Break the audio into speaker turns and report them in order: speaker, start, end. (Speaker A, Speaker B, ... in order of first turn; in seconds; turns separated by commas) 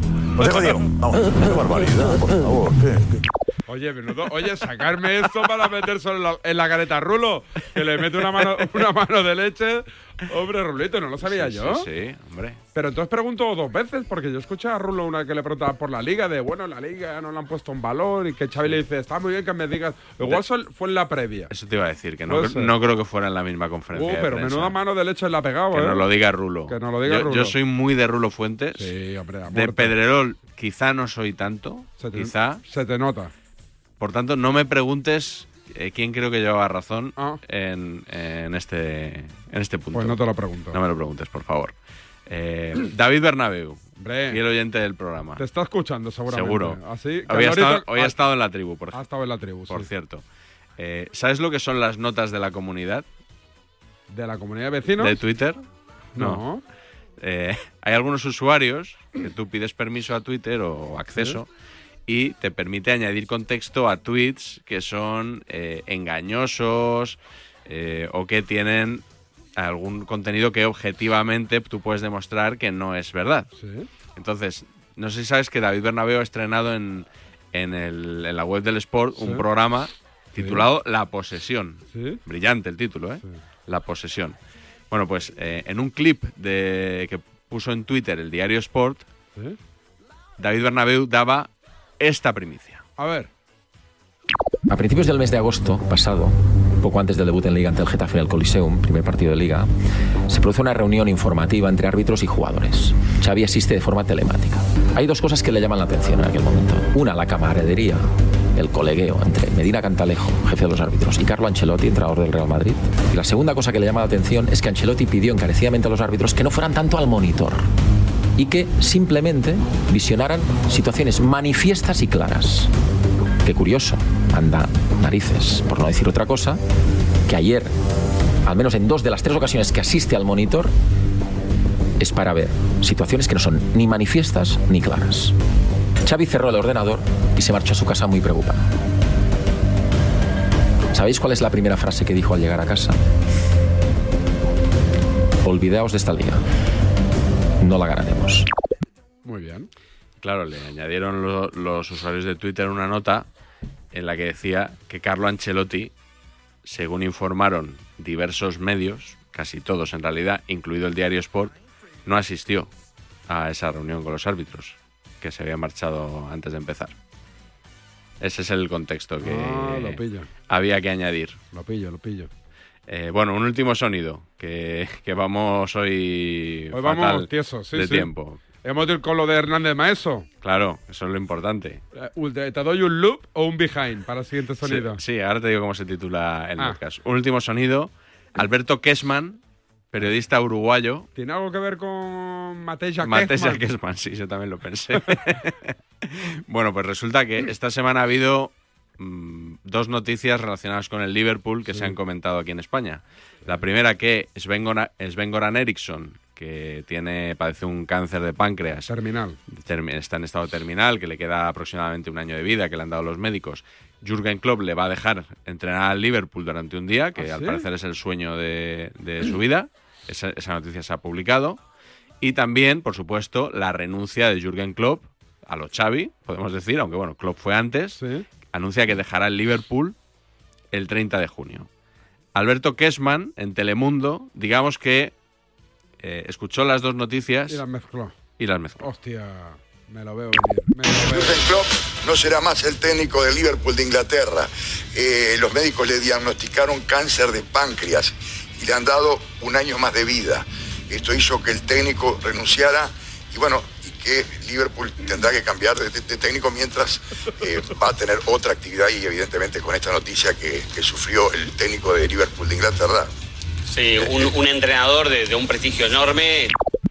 Speaker A: 0.4-3.0, Speaker B: 3.7-11.9, Speaker C: 11.2-12.6, Speaker B: 12.8-21.5, Speaker C: 21.5-24.8, Speaker B: 22.3-22.7, Speaker B: 23.9-26.1, Speaker C: 25.7-28.9, Speaker B: 26.7-27.6, Speaker B: 28.8-30.0, Speaker C: 29.5-32.6, Speaker B: 32.0-33.3, Speaker C: 34.0-40.2, Speaker B: 39.9-40.8, Speaker C: 40.7-41.7, Speaker C: 42.3-45.4, Speaker B: 44.0-44.4, Speaker B: 45.4-48.1, Speaker C: 46.3-49.0, Speaker B: 48.9-49.9, Speaker C: 49.7-50.2, Speaker C: 50.8-53.0, Speaker B: 54.1-55.2, Speaker C: 55.0-55.6, Speaker B: 56.2-56.6, Speaker C: 56.2-56.4, Speaker C: 57.2-61.5, Speaker C: 62.1-69.0, Speaker C: 69.6-73.5, Speaker B: 73.6-73.9, Speaker C: 74.2-84.4, Speaker B: 79.2-79.5, Speaker B: 80.4-80.7, Speaker B: 81.9-82.2, Speaker C: 84.9-89.1, Speaker C: 90.4-92.8, Speaker B: 93.0-93.3, Speaker D: 94.7-99.7, Speaker D: 100.3-117.7, Speaker D: 118.4-122.7, Speaker D: 123.4-126.6, Speaker D: 127.3-127.7, Speaker D: 128.4-130.7, Speaker D: 132.0-135.3, Speaker D: 136.0-138.7, Speaker D: 140.9-143.0, Speaker D: 145.4-146.4, Speaker D: 147.6-148.5, Speaker B: 149.2-149.7, Speaker C: 150.2-153.3, Speaker C: 153.9-155.9, Speaker C: 156.7-161.5, Speaker C: 162.1-162.7, Speaker C: 163.3-166.9, Speaker C: 168.2-171.4, Speaker B: 169.2-170.3, Speaker B: 171.5-172.3, Speaker C: 172.9-178.4, Speaker B: 176.7-180.3, Speaker C: 180.4-181.8, Speaker B: 181.9-185.0, Speaker C: 184.6-189.4, Speaker C: 189.9-191.1, Speaker B: 191.2-193.6, Speaker C: 193.0-208.9, Speaker B: 201.7-202.0, Speaker B: 208.9-209.4, Speaker C: 209.5-221.6, Speaker B: 217.2-217.7, Speaker C: 222.2-229.9, Speaker B: 228.0-228.3, Speaker C: 230.7-231.7, Speaker C: 232.3-235.1, Speaker C: 236.0-237.6, Speaker B: 237.5-238.2, Speaker C: 238.4-238.9, Speaker B: 238.8-241.4, Speaker E: 241.0-263.1, Speaker F: 263.7-266.5